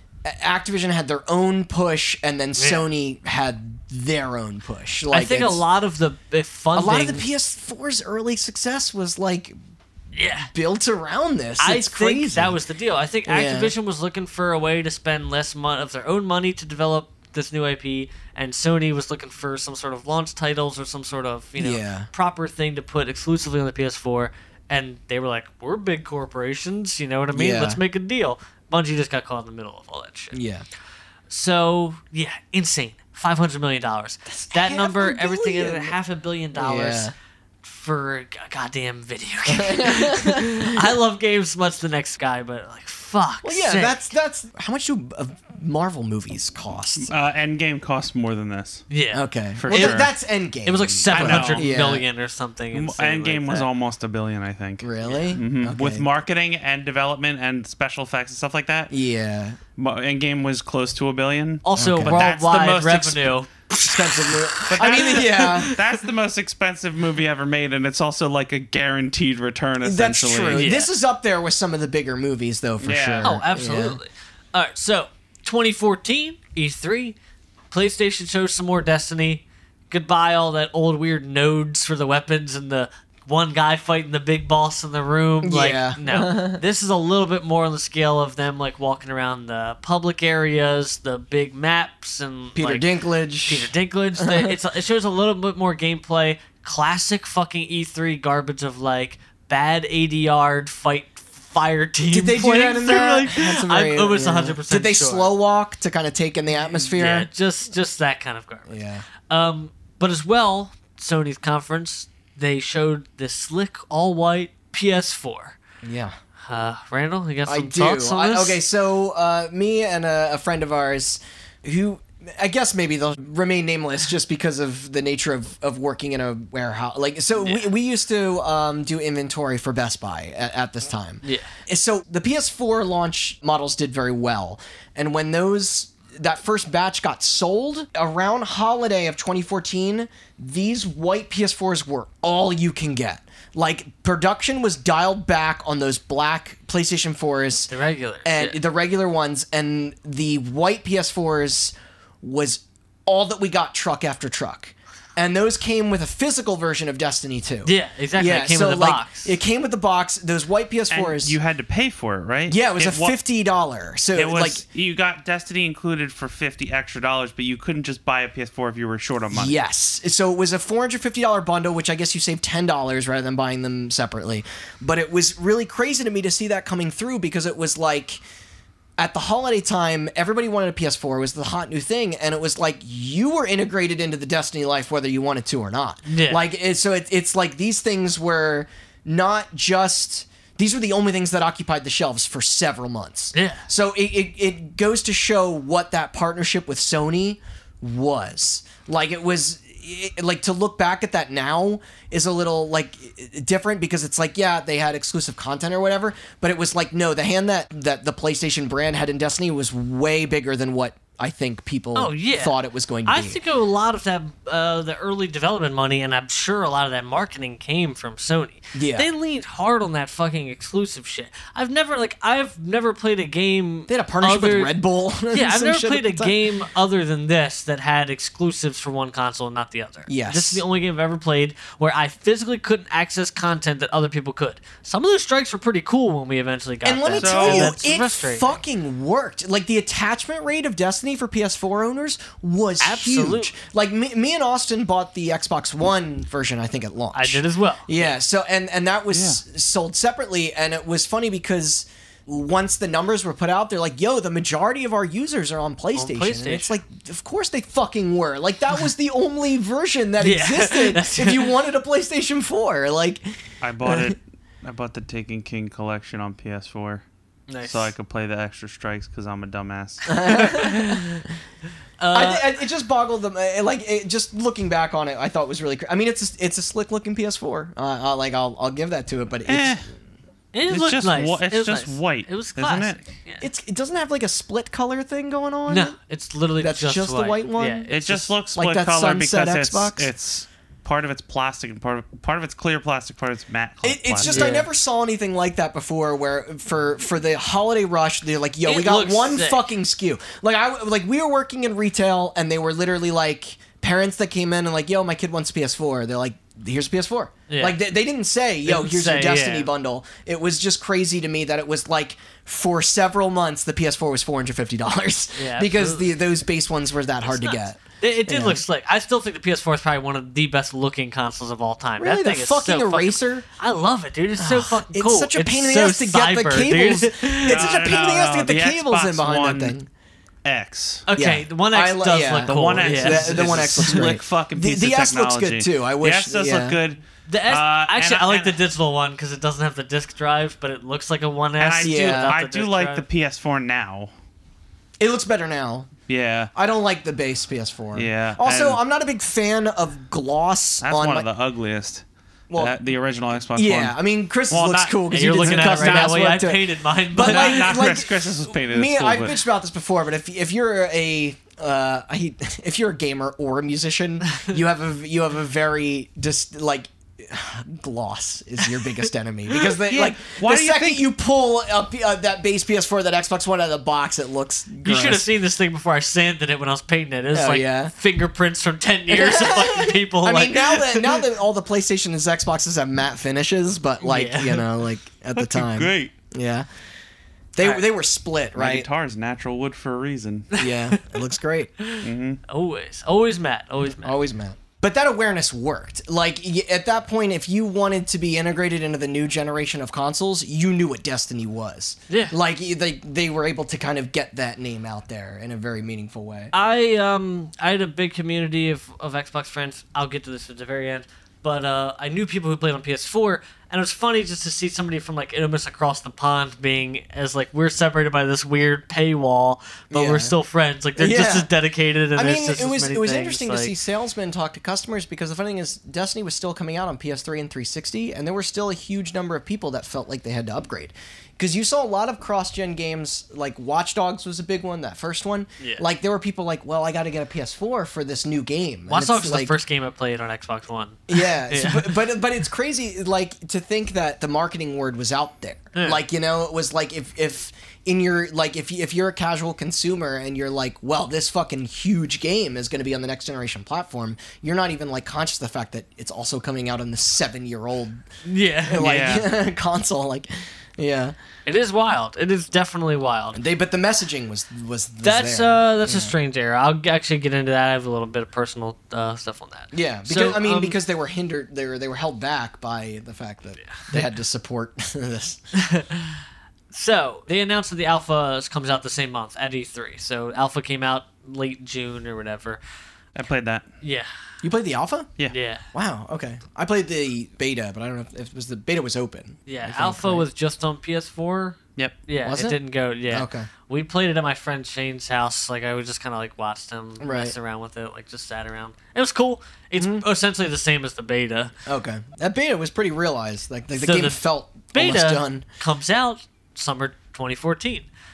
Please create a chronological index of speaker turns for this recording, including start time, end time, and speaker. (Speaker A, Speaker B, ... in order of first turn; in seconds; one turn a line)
Speaker A: 0.2-5.6
Speaker B: 2.6-2.9
Speaker B: 5.1-7.3
Speaker A: 6.7-9.6
Speaker B: 10.1-10.5
Speaker A: 10.5-12.6
Speaker B: 11.6-30.4
Speaker A: 13.3-13.7
Speaker A: 21.6-22.1
Speaker A: 27.3-27.8
Speaker A: 30.3-30.6
Speaker B: 31.3-37.1
Speaker A: 34.3-36.0
Speaker A: 36.5-37.1
Speaker B: 37.6-44.1
Speaker A: 39.5-40.8
Speaker A: 43.4-47.1
Speaker C: 47.0-48.9
Speaker B: 48.9-50.0
Speaker A: 49.1-52.0
Speaker C: 49.6-50.1
Speaker B: 50.6-53.7
Speaker C: 51.1-51.7
Speaker C: 52.7-58.9
Speaker A: 54.8-56.1
Speaker A: 58.9-59.6
Speaker C: 59.8-63.3
Speaker B: 61.6-66.0
Speaker A: 61.8-62.3
Speaker A: 63.9-65.7
Speaker C: 64.7-70.7
Speaker A: 69.8-74.0
Speaker B: 70.5-70.9
Speaker C: 72.8-73.4
Speaker B: 73.2-77.2
Speaker B: 77.7-92.9
Speaker A: 85.4-86.6
Speaker A: 92.5-94.5
Speaker B: 93.5-105.3
Speaker A: 102.1-107.3
Speaker B: 106.8-108.7
Speaker A: 108.7-109.0
Speaker B: 109.3-115.6
Speaker A: 115.8-116.2
Speaker B: 116.5-118.6
Speaker A: 117.5-147.7
Speaker B: 127.4-127.7
Speaker B: 131.2-131.5
Speaker B: 147.7-148.6
Speaker A: 148.2-161.4
Speaker B: 157.6-159.4
Speaker C: 160.9-163.1
Speaker A: 162.5-164.6
Speaker C: 164.1-169.6
Speaker A: 169.3-178.2
Speaker A: 179.0-213.4
Speaker B: 186.1-186.4
Speaker B: 193.3-193.7
Speaker B: 211.9-212.6
Speaker B: 213.1-224.7
Speaker A: 218.7-219.1
Speaker A: 223.9-226.4
Speaker B: 225.3-238.6
Speaker A: 230.1-230.6
Speaker A: 236.8-264.1
Speaker C: 237.2-237.8
Speaker B: 242.8-243.5
Speaker B: 247.1-248.1
Speaker C: 249.1-249.4
Speaker B: 255.9-256.8
Speaker B: 260.2-261.5
Speaker C: 263.6-267.0
Speaker B: 267.5-267.9
Speaker C: 267.6-270.8
Speaker A: 270.1-271.0
Speaker B: 270.5-271.2
Speaker B: 272.0-272.6
Speaker A: 272.1-279.8
Speaker C: 279.4-279.8
Speaker B: 280.5-283.5
Speaker C: 280.7-283.1
Speaker A: 283.4-285.9
Speaker B: 285.7-288.1
Speaker A: 286.6-290.1
Speaker C: 287.9-294.5
Speaker A: 293.8-318.6
Speaker B: 294.2-294.7
Speaker B: 298.6-299.7
Speaker B: 307.5-307.8
Speaker B: 308.7-309.7
Speaker B: 315.4-316.1
Speaker B: 317.3-327.8
Speaker A: 322.0-323.4
Speaker A: 324.4-329.9
Speaker C: 327.4-329.8
Speaker C: 330.4-331.1
Speaker B: 331.1-334.1
Speaker A: 331.1-336.8
Speaker C: 332.5-338.6
Speaker B: 337.3-343.1
Speaker C: 341.6-344.1
Speaker A: 341.8-342.3
Speaker A: 345.0-345.9
Speaker C: 346.1-346.5
Speaker A: 346.6-351.3
Speaker C: 347.9-348.8
Speaker C: 350.8-356.4
Speaker A: 352.5-352.8
Speaker A: 353.6-375.2
Speaker B: 355.1-357.9
Speaker C: 357.2-359.4
Speaker C: 369.9-371.1
Speaker B: 374.8-381.2
Speaker A: 377.3-377.9
Speaker A: 379.1-386.7
Speaker B: 384.0-384.6
Speaker C: 385.4-386.1
Speaker A: 387.6-388.9
Speaker C: 388.6-390.5
Speaker B: 390.5-391.1
Speaker A: 390.6-391.7
Speaker B: 391.8-394.2
Speaker C: 392.0-392.4
Speaker A: 393.9-406.5
Speaker B: 402.1-402.4
Speaker B: 406.5-423.7
Speaker A: 419.9-420.4
Speaker A: 421.0-421.5
Speaker A: 422.1-439.6
Speaker B: 435.6-435.9
Speaker B: 438.9-442.0
Speaker A: 441.1-458.1
Speaker B: 445.7-446.0
Speaker B: 458.2-458.9
Speaker A: 458.7-461.2
Speaker C: 458.8-459.3
Speaker B: 461.4-463.4
Speaker A: 463.3-466.1
Speaker B: 465.0-470.8
Speaker A: 469.7-475.4
Speaker B: 473.6-473.9
Speaker B: 475.5-482.6
Speaker C: 483.1-483.7
Speaker B: 483.8-484.1
Speaker A: 484.4-485.1
Speaker B: 485.3-485.7
Speaker A: 485.7-490.3
Speaker B: 489.5-501.5
Speaker A: 492.2-492.6
Speaker A: 493.1-493.5
Speaker A: 497.0-497.4
Speaker A: 499.8-500.1
Speaker A: 501.7-505.4
Speaker B: 503.8-507.9